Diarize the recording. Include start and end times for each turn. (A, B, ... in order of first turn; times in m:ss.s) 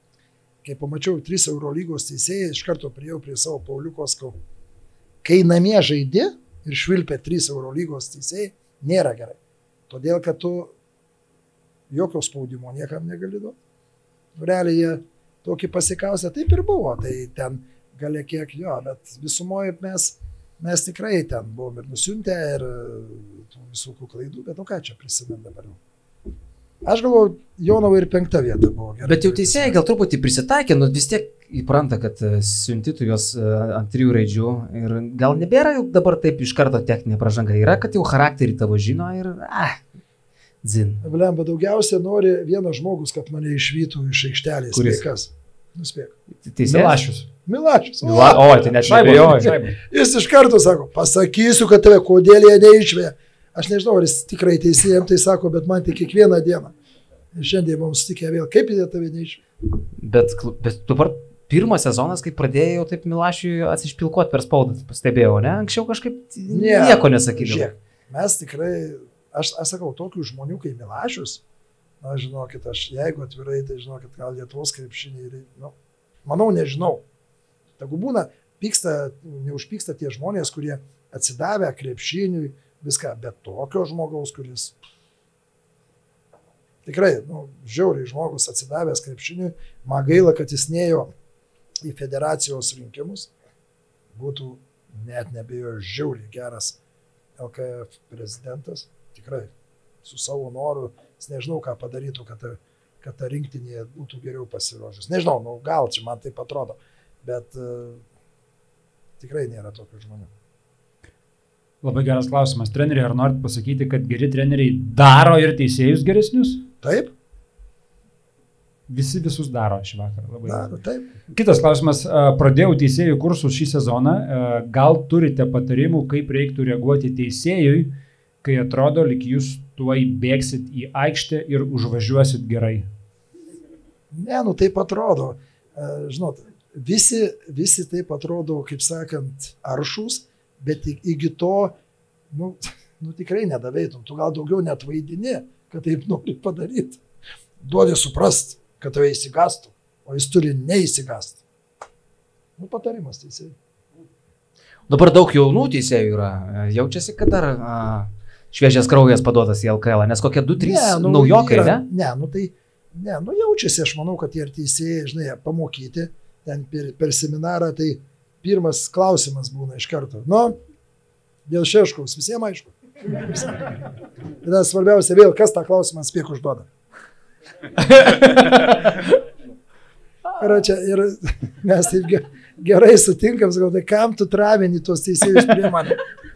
0:00.6-0:04.4 A
0:05.2-0:09.4 A
0:09.9-0:10.8 A
0:11.9-0:13.6 A
0:14.4-0:25.8 A
0:26.8-0:29.8 A
0:29.0-0:39.8 B
0:40.6-0:41.0 B
0:41.0-0:46.1 A
0:44.7-0:45.0 B
0:46.4-0:47.0 B
0:46.6-0:47.3 C
0:47.5-0:56.7 A
0:48.0-0:49.6 B
0:48.7-0:49.8 C
0:57.3-0:59.4 A
1:00.0-1:07.7 B
1:06.5-1:11.4 A
1:12.0-1:17.0 A
1:17.8-1:24.8 A
1:26.9-1:31.1 A
1:31.8-1:33.3 A
1:34.2-1:36.8 A
1:37.4-1:39.5 A
1:40.0-1:48.0 A
1:49.2-1:50.3 A
1:51.8-1:56.6 C
1:56.8-1:57.1 A
1:58.9-2:00.8 C
2:00.5-2:01.1 A
2:01.3-2:07.9 C
2:08.4-2:12.9 C
2:14.1-2:21.8 A
2:22.3-2:27.0 A
2:27.6-2:31.4 A
2:32.6-2:33.6 A
2:34.9-2:41.8 B
2:40.6-2:50.6 A
2:51.5-2:53.7 A
2:54.4-2:56.7 A
2:57.9-2:58.6 B
3:00.4-3:06.0 A